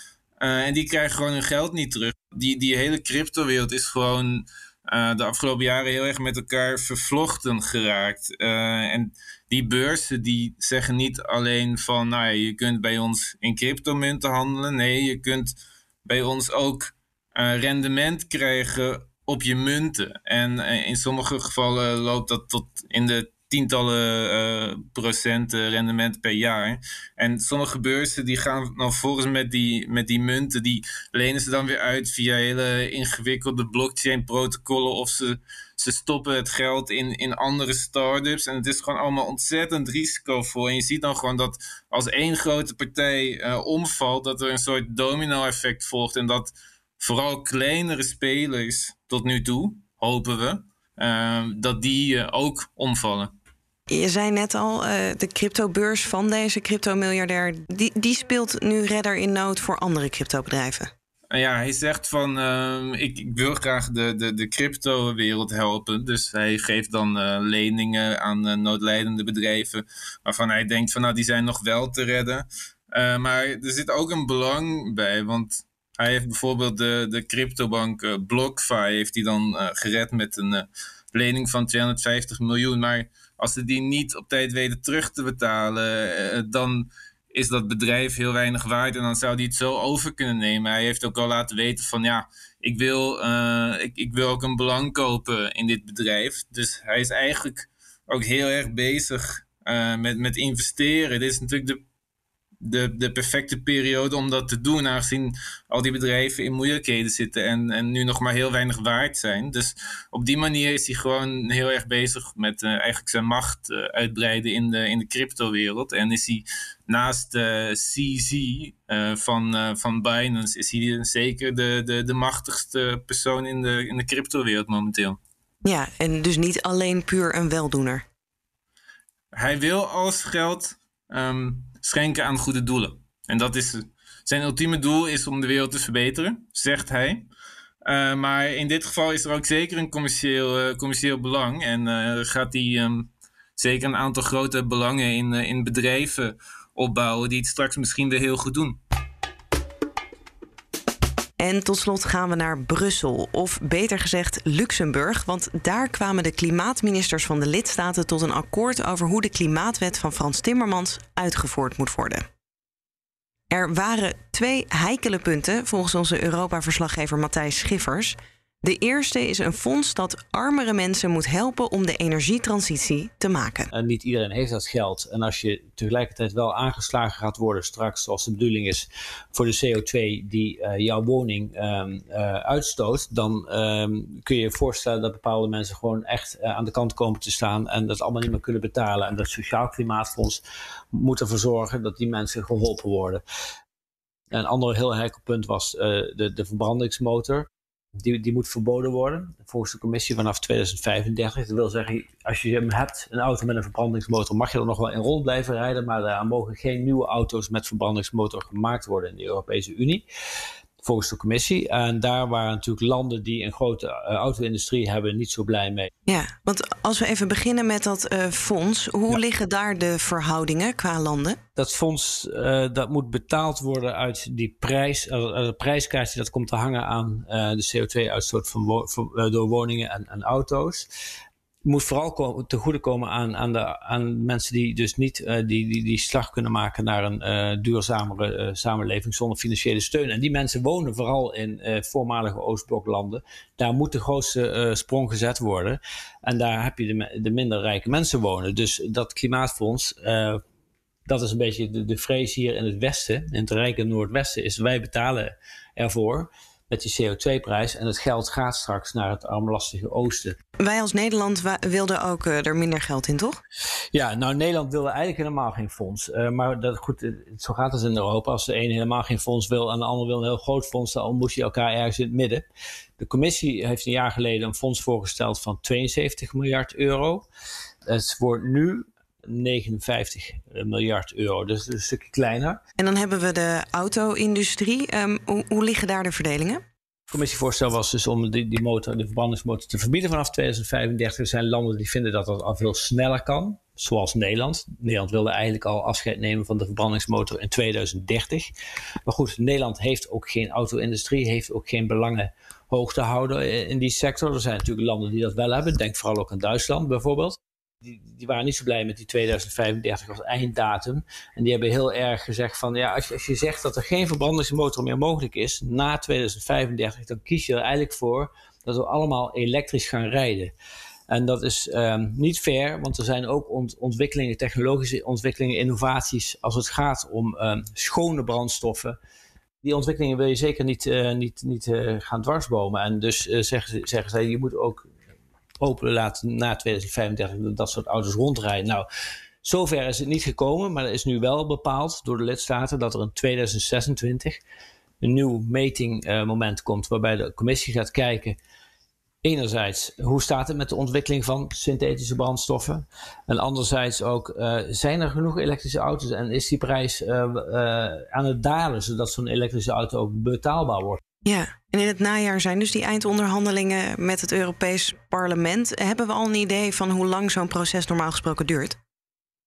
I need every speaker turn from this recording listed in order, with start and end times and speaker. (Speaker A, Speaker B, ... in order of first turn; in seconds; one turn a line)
Speaker A: 0.4-53.3
Speaker B: 53.9-60.9
Speaker A: 61.3-101.8
Speaker A: 102.6-125.2
Speaker B: 125.7-128.0
Speaker A: 129.3-137.3
Speaker A: 137.9-148.8
Speaker B: 151.4-162.2
Speaker B: 163.5-173.7
Speaker C: 173.7-193.2
Speaker C: 194.3-197.5
Speaker C: 198.0-210.1
Speaker C: 210.8-215.9
Speaker B: 216.1-221.4
Speaker C: 221.6-230.9
Speaker C: 231.7-250.4
Speaker C: 251.1-260.4
Speaker B: 260.6-263.4
Speaker C: 263.9-272.5
Speaker C: 273.0-277.3
Speaker C: 277.9-282.6
Speaker B: 282.8-286.6
Speaker C: 287.1-298.5
Speaker C: 299.1-320.5
Speaker C: 321.1-329.0
Speaker C: 329.6-334.9
Speaker C: 335.6-338.9
Speaker C: 339.4-344.4
Speaker C: 345.0-348.4
Speaker C: 349.2-361.0
Speaker B: 361.3-368.8